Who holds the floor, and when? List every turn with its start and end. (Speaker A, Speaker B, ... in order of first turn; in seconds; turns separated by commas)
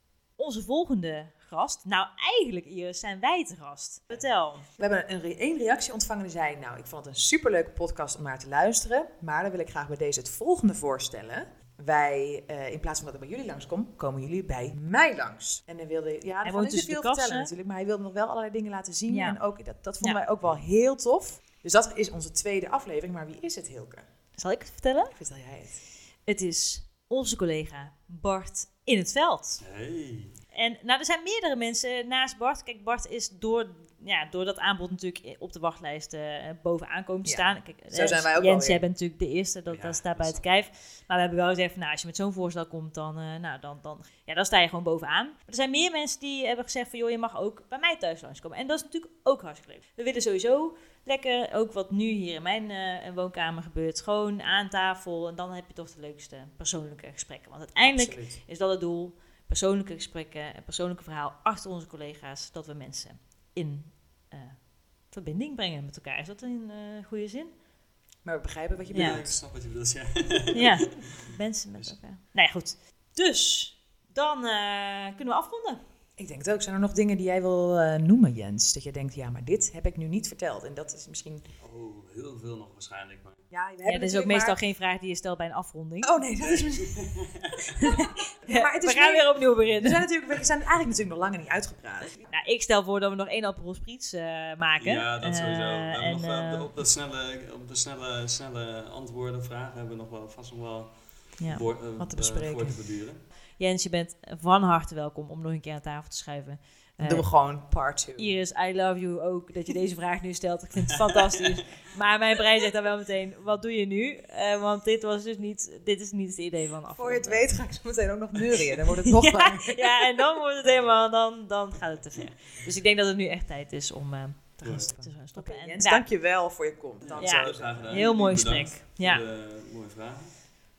Speaker A: 0.4-4.7, Speaker B: 4.8-24.1, Speaker A: 16.4-17.5, Speaker A: 19.1-19.4, Speaker A: 24.4-25.2, Speaker B: 25.1-25.8, Speaker A: 26.2-29.6, Speaker C: 29.6-30.4, Speaker A: 30.5-67.5, Speaker B: 37.2-38.8, Speaker C: 39.7-40.7, Speaker B: 57.8-58.4, Speaker B: 68.2-69.4, Speaker C: 68.8-71.0, Speaker A: 68.9-69.2, Speaker A: 70.5-75.8, Speaker B: 76.2-81.5, Speaker C: 81.6-83.4, Speaker B: 83.5-84.6, Speaker A: 83.8-86.2, Speaker B: 86.0-87.0, Speaker C: 86.4-87.7, Speaker B: 87.8-92.2, Speaker A: 87.9-90.0, Speaker A: 92.3-96.7, Speaker C: 94.8-103.2, Speaker A: 101.4-101.6, Speaker B: 102.0-102.8, Speaker A: 103.6-107.3, Speaker B: 107.0-108.3, Speaker A: 108.2-117.6, Speaker B: 117.0-120.2, Speaker A: 119.1-126.1, Speaker C: 124.6-124.9, Speaker B: 124.9-128.2, Speaker C: 127.0-130.6, Speaker A: 127.2-129.2